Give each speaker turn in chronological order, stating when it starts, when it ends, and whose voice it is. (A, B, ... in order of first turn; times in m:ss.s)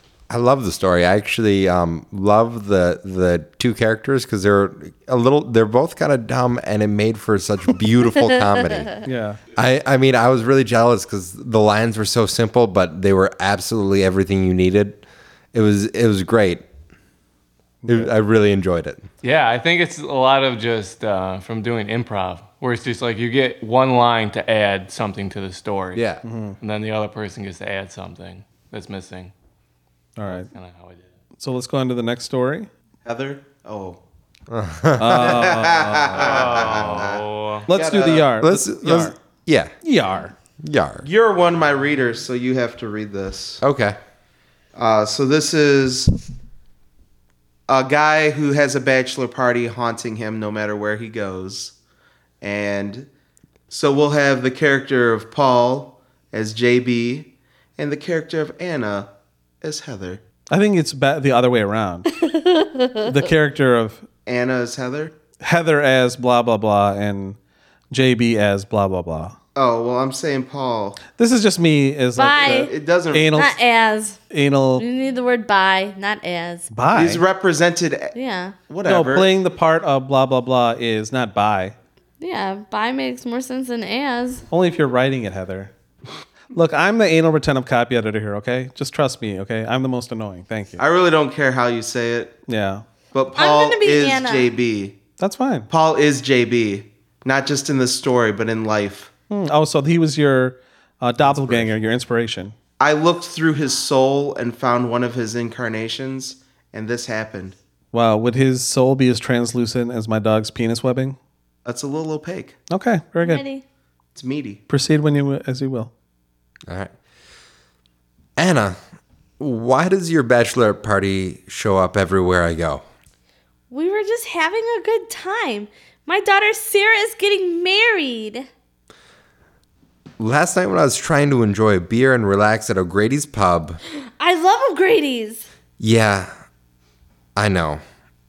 0:00.3-0:09.0 A
0:09.0-0:09.4 B
0:09.6-0:16.6 A
0:17.8-0:18.1 B
0:17.9-0:19.1 A
0:19.2-0:26.0 C
0:26.0-0:26.2 A
0:26.2-0:26.6 B
0:26.6-0:29.3 C
0:30.2-0:30.5 B
0:30.3-0:31.1 C
0:31.4-0:32.7 B
0:33.0-0:34.0 D
0:34.5-0:35.5 A
0:35.0-0:36.8 B
0:35.2-0:38.3 D
0:36.1-0:37.7 C
0:37.7-0:39.2 B
0:38.4-0:39.7 A
0:39.8-0:40.3 B
0:40.6-0:41.1 A
0:41.0-0:43.6 D
0:43.6-0:44.0 A
0:44.8-0:46.1 D
0:47.7-0:51.7 D
0:52.4-0:53.1 D
0:53.7-0:59.1 D
0:59.6-1:00.2 D
1:00.5-1:02.2 B
1:02.1-1:03.1 E
1:03.0-1:04.0 B
1:04.3-1:05.1 D
1:05.4-1:07.4 B
1:07.9-1:09.4 B
1:09.6-1:11.0 D
1:11.2-1:13.6 B
1:12.2-1:12.7 E
1:12.4-1:13.4 D
1:13.4-1:14.2 E
1:14.3-1:14.8 B
1:14.8-1:16.7 E
1:16.7-1:17.2 B
1:16.9-1:18.1 D
1:18.1-1:18.6 E
1:18.7-1:19.3 D
1:18.8-1:21.8 B
1:22.2-1:24.4 E
1:24.5-1:25.7 B
1:26.5-1:30.8 B
1:30.8-1:32.4 D
1:32.5-1:32.8 B
1:33.1-1:35.0 D
1:33.4-1:34.5 E
1:35.2-1:35.7 B
1:35.7-1:39.1 D
1:39.3-1:42.6 B
1:42.8-1:47.6 D
1:47.9-1:51.2 B
1:51.6-1:52.6 D
1:52.7-1:53.4 B
1:53.2-1:53.6 E
1:54.2-1:54.6 D
1:54.7-1:55.9 B
1:56.7-1:56.9 A
1:58.4-1:58.8 A
1:59.4-2:02.8 A
2:03.7-2:08.5 E
2:10.2-2:13.8 A
2:14.2-2:15.5 E
2:15.8-2:16.3 A
2:17.4-2:17.8 A